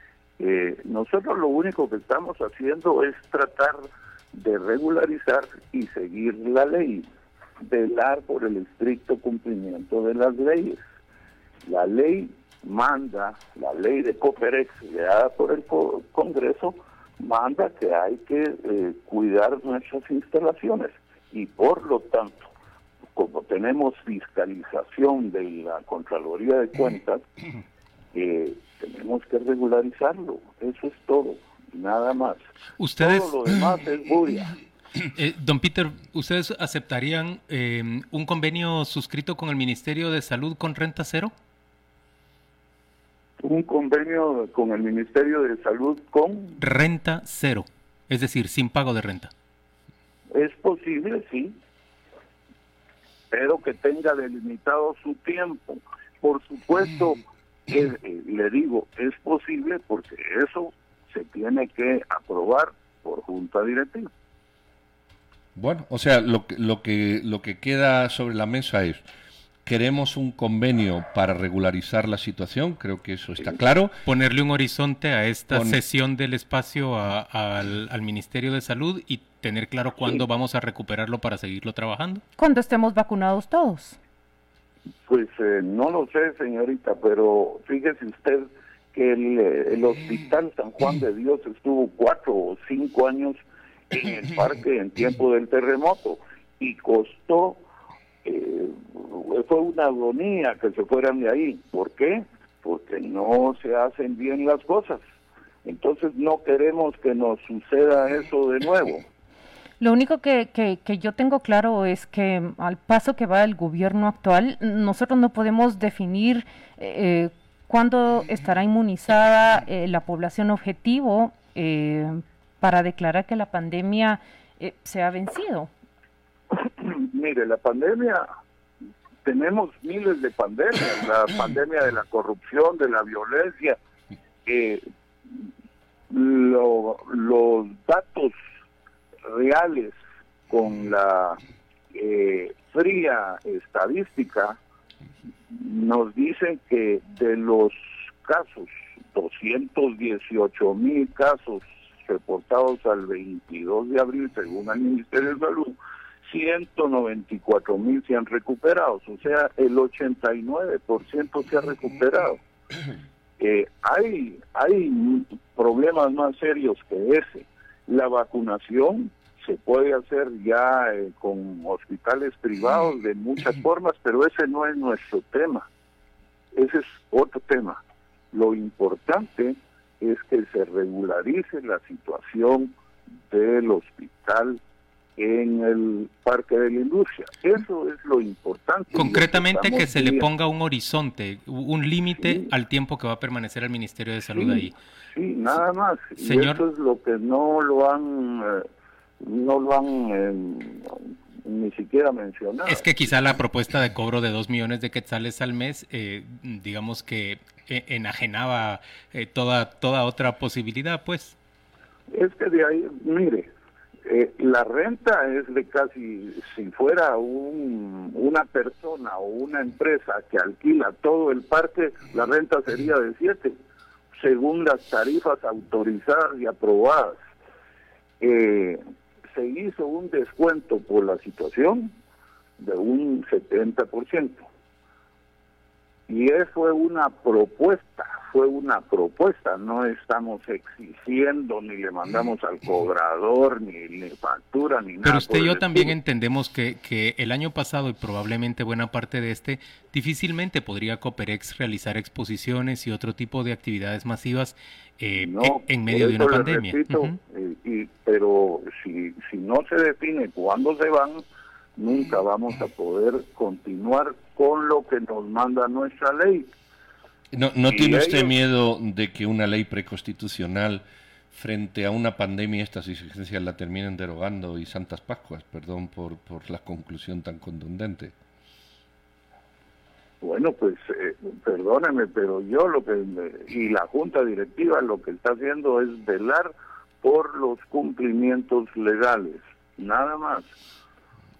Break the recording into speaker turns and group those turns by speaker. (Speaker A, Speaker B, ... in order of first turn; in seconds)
Speaker A: 0.4-7.1, 7.6-10.8, 11.7-22.5, 23.1-27.2, 28.1-32.4, 33.0-34.5, 43.4-46.6, 50.3-51.6, 53.3-64.1, 85.1-97.6, 98.2-105.0, 105.6-109.1, 126.5-128.3, 129.2-133.8, 134.5-135.5, 136.1-138.3, 139.3-140.0, 140.5-141.4, 141.9-144.6, 145.5-162.4, 163.4-175.7, 176.5-182.7, 183.3-184.6, 185.2-190.3, 192.2-192.5, 194.3-198.7, 199.2-202.9, 212.1-213.5, 214.1-223.6, 224.2-227.2, 228.2-228.8, 229.3-231.9, 232.6-234.5, 236.1-245.9, 255.2-261.2, 261.8-266.5, 267.7-268.3, 280.2-290.5
Speaker B: 32.8-33.3, 35.1-41.3, 46.6-49.3, 74.0-82.2, 188.9-194.8, 196.2-196.6, 202.7-211.4, 245.0-257.1
Speaker C: 65.5-69.0, 69.6-74.0, 75.5-75.8, 267.3-278.1
Speaker D: 82.4-84.0, 109.8-125.7